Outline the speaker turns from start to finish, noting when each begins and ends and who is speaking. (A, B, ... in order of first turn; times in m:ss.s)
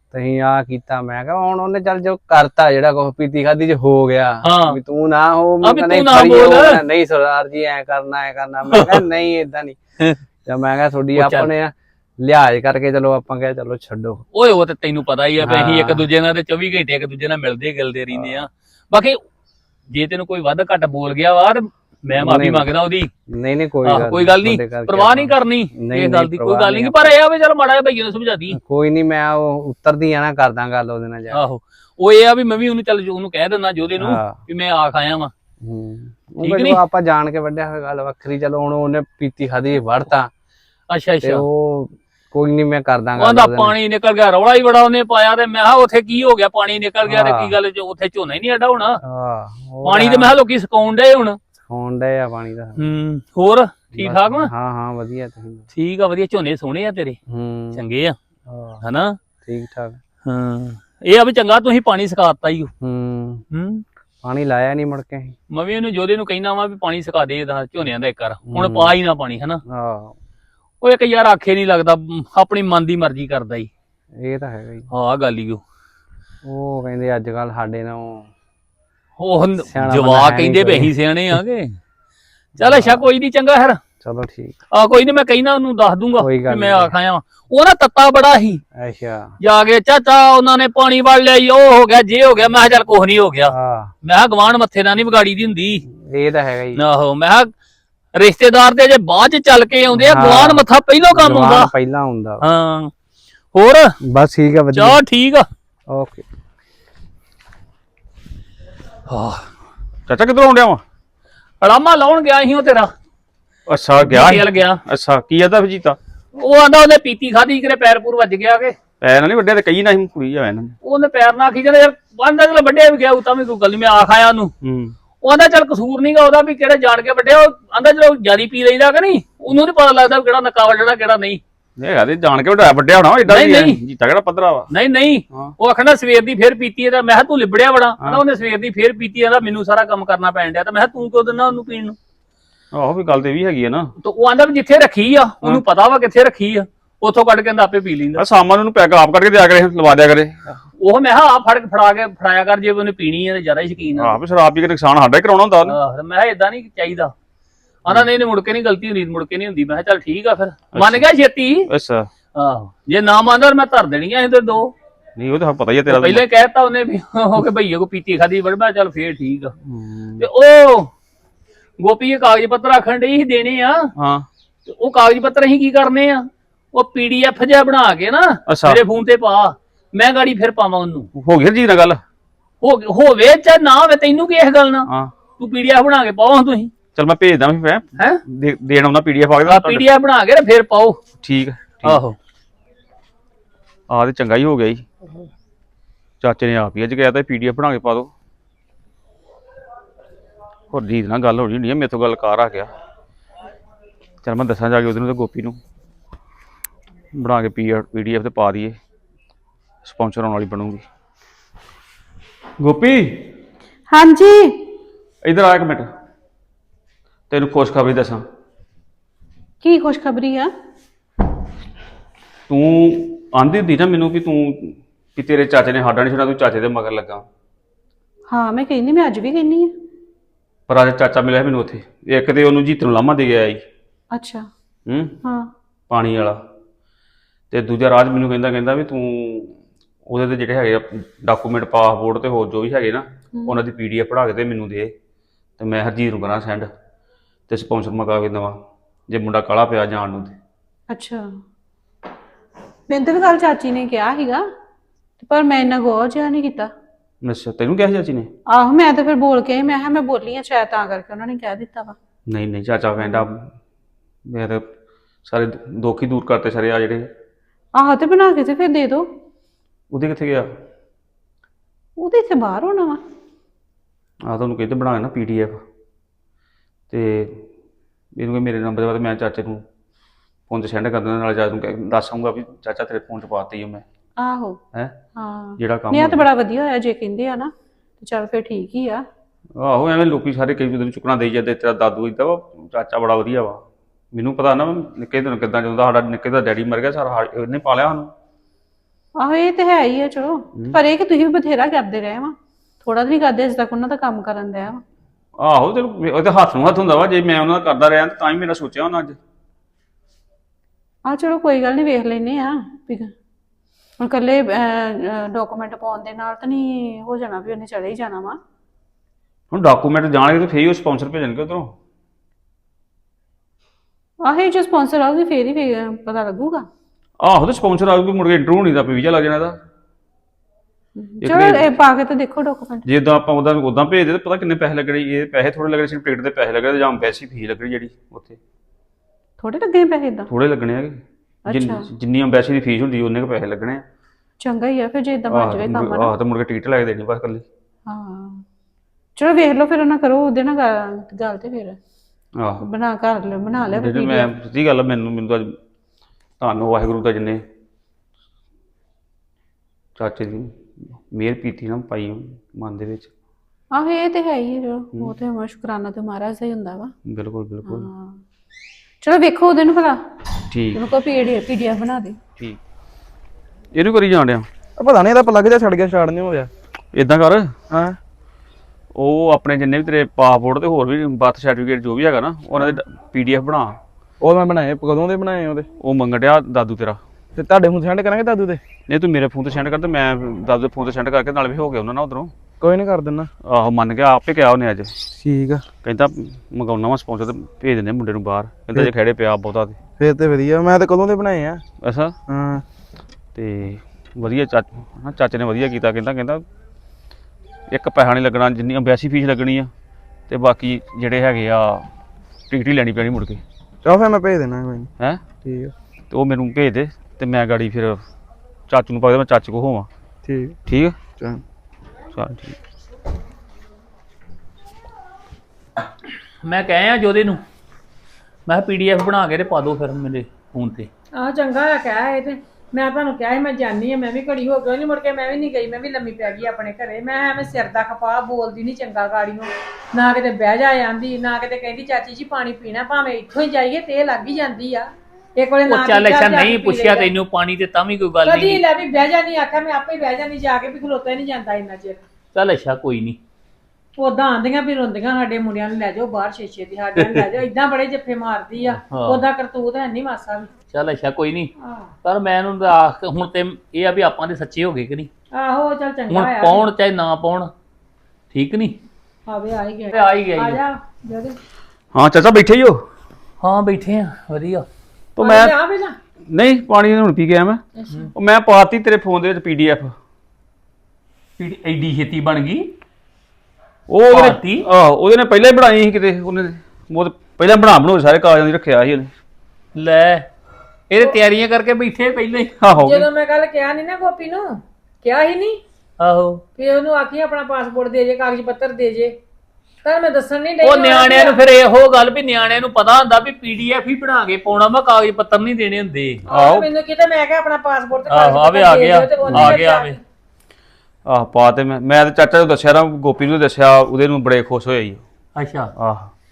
0:00.1-0:09.8 A
0:04.4-0:04.8 B
0:05.6-0:06.8 B
0:08.7-0:09.0 B
0:10.4-0:14.2 A
0:11.1-0:11.5 B
0:14.3-0:19.2 B
0:15.4-0:16.0 A
0:19.9-0:23.1 B
0:22.1-0:22.7 A
0:23.3-0:27.1 A
0:23.8-0:28.6 B
0:28.5-0:31.4 A
0:31.3-0:35.3 B
0:34.0-0:34.4 A
0:35.6-0:40.3 A
0:36.4-0:36.8 B
0:40.9-0:41.4 B
0:41.2-0:43.7 A
0:43.2-0:49.0 B
0:47.0-0:47.5 A
0:49.0-0:50.3 A
0:49.8-0:51.4 B
0:51.7-0:52.8 A
0:52.8-0:54.5 B
0:53.9-0:55.6 A
0:55.7-0:57.2 B
0:57.3-0:57.8 A
0:57.7-0:58.2 B
0:58.5-0:58.8 A
0:58.8-0:59.2 B
0:59.4-1:00.0 A
1:00.2-1:02.7 B
1:02.8-1:03.4 A
1:03.5-1:03.8 B
1:04.2-1:05.3 A
1:05.5-1:09.6 B
1:08.5-1:08.9 A
1:09.7-1:10.1 A
1:10.8-1:13.7 B
1:14.2-1:14.9 A
1:14.9-1:15.6 B
1:16.4-1:18.3 A
1:19.2-1:21.8 B
1:19.7-1:20.9 A
1:22.6-1:23.0 A
1:22.6-1:23.8 B
1:24.0-1:24.5 A
1:24.7-1:28.6 B
1:26.2-1:26.9 A
1:28.8-1:29.3 A
1:29.4-1:35.8 B
1:33.5-1:33.9 A
1:35.9-1:36.8 A
1:36.8-1:37.5 B
1:38.1-1:41.7 B
1:39.9-1:42.4 A
1:42.4-1:42.9 B
1:43.5-1:43.9 B
1:44.1-1:45.0 A
1:44.7-1:45.5 B
1:45.9-1:46.2 A
1:49.1-1:49.5 B
1:50.1-1:50.8 C
1:51.6-1:52.9 B
1:53.7-1:56.0 C
1:54.0-1:54.8 B
1:56.3-1:58.8 B
1:59.0-2:00.7 C
2:00.8-2:04.5 B
2:04.6-2:04.9 C
2:05.2-2:11.4 B
2:11.8-2:14.7 C
2:13.3-2:13.8 B
2:14.7-2:22.0 B
2:22.7-2:23.9 C
2:24.0-2:28.2 B
2:28.2-2:30.5 C
2:30.8-2:34.2 B
2:33.9-2:35.7 C
2:35.6-2:37.1 B
2:37.8-2:41.7 B
2:40.7-2:41.0 C
2:41.7-2:42.1 C
2:42.3-2:44.7 B
2:45.2-2:46.2 C
2:45.9-2:49.5 B
2:49.6-2:50.2 C
2:50.2-2:50.9 B
2:51.8-2:53.9 B
2:54.0-2:54.3 C
2:54.6-3:01.1 B
2:58.5-2:58.8 C
3:01.1-3:02.0 C
3:02.6-3:06.7 B
3:04.9-3:05.1 C
3:06.9-3:09.9 C
3:09.4-3:11.0 B
3:11.2-3:12.0 C
3:11.8-3:12.2 B
3:13.9-3:14.9 C
3:16.2-3:18.1 C
3:20.7-3:22.7 C
3:24.2-3:25.6 C
3:27.1-3:28.8 C
3:29.8-3:30.8 C
3:32.6-3:33.3 C
3:33.9-3:34.6 D
3:35.2-3:35.9 C
3:37.3-3:38.2 C
3:39.6-3:40.5 D
3:42.5-3:47.2 C
3:48.3-3:49.7 D
3:50.7-3:53.6 C
3:54.1-3:54.5 D
3:54.9-3:55.2 C
3:55.2-3:55.5 D
3:55.9-3:56.4 C
3:57.5-3:59.6 C
4:00.1-4:04.9 C
4:03.3-4:03.6 D
4:05.6-4:06.7 C
4:07.5-4:08.6 C
4:09.1-4:10.4 C
4:10.9-4:11.4 D
4:12.9-4:14.4 D
4:15.2-4:16.7 D
4:17.2-4:18.3 C
4:18.5-4:22.0 D
4:22.3-4:23.5 C
4:23.0-4:23.2 D
4:24.2-4:24.7 C
4:25.2-4:27.1 C
4:27.7-4:29.0 D
4:29.9-4:30.5 C
4:32.0-4:33.0 D
4:34.2-4:35.6 C
4:36.9-4:37.4 C
4:38.2-4:39.6 C
4:40.5-4:43.8 C
4:44.2-4:44.6 D
4:45.1-4:49.0 D
4:45.6-4:46.2 C
4:49.6-4:58.1 C
4:59.2-5:04.8 D
5:05.4-5:09.2 C
5:11.0-5:13.1 D
5:14.0-5:18.4 D
5:19.5-5:21.7 C
5:24.2-5:26.7 D
5:27.2-5:29.6 C
5:31.0-5:32.8 D
5:31.2-5:31.7 C
5:32.8-5:38.4 C
5:39.4-5:40.3 D
5:40.3-5:43.8 C
5:41.4-5:41.9 D
5:44.4-5:46.1 D
5:45.3-5:47.4 C
5:47.9-5:48.4 D
5:49.2-5:51.8 D
5:52.4-5:52.6 C
5:52.6-5:54.3 D
5:53.7-5:55.6 C
5:56.4-5:57.4 C
6:00.0-6:03.1 C
6:03.7-6:06.9 D
6:07.0-6:07.9 C
6:07.6-6:08.2 D
6:09.0-6:10.0 D
6:10.5-6:10.8 C
6:10.7-6:12.2 D
6:13.7-6:14.5 C
6:14.8-6:16.5 E
6:16.9-6:17.6 C
6:17.7-6:18.0 E
6:18.9-6:23.8 C
6:24.2-6:25.7 E
6:25.8-6:27.0 C
6:27.4-6:28.6 E
6:28.9-6:32.3 C
6:32.6-6:33.3 E
6:33.4-6:35.1 C
6:35.1-6:35.7 E
6:35.7-6:39.8 C
6:40.0-6:41.6 E
6:41.8-6:42.2 C
6:42.3-6:42.6 E
6:43.3-6:46.4 C
6:47.7-6:49.7 C
6:50.3-6:51.9 C
6:52.5-6:53.4 C
6:53.8-6:54.9 E
6:55.0-6:55.2 C
6:55.4-6:55.7 E
6:56.1-6:58.0 C
6:58.7-6:59.9 C
7:00.2-7:00.6 E
7:00.6-7:01.0 C
7:01.1-7:01.4 E
7:02.1-7:02.6 C
7:06.4-7:07.4 B
7:08.5-7:10.9 B
7:11.1-7:27.1 F
7:25.7-7:28.6 B
7:28.2-7:32.0 F
7:32.3-7:33.2 B
7:34.0-7:40.5 F
7:37.0-7:37.2 B
7:38.8-7:39.2 B
7:40.7-7:41.5 B
7:41.6-7:41.9 F
7:42.0-7:45.1 B
7:45.3-7:46.7 F
7:46.1-7:47.5 B
7:48.3-7:48.8 B
7:49.3-7:51.4 F
7:49.9-7:50.6 B
7:51.9-7:52.8 C
7:53.4-7:54.6 B
7:55.2-7:55.5 C
7:55.2-7:56.0 F
7:56.3-7:57.6 C
7:57.8-7:58.1 F
7:58.1-7:59.9 C
8:01.4-8:02.7 B
8:03.9-8:09.1 C
8:04.1-8:04.6 B
8:09.8-8:10.3 B
8:10.9-8:12.5 B
8:12.6-8:13.1 C
8:12.8-8:15.6 F
8:16.0-8:16.4 B
8:16.6-8:19.2 F
8:19.8-8:21.4 F
8:20.6-8:26.3 B
8:26.3-8:30.0 F
8:26.3-8:26.6 C
8:28.1-8:30.0 B
8:29.2-8:29.6 C
8:31.0-8:35.0 C
8:35.4-8:35.7 B
8:35.8-8:36.1 C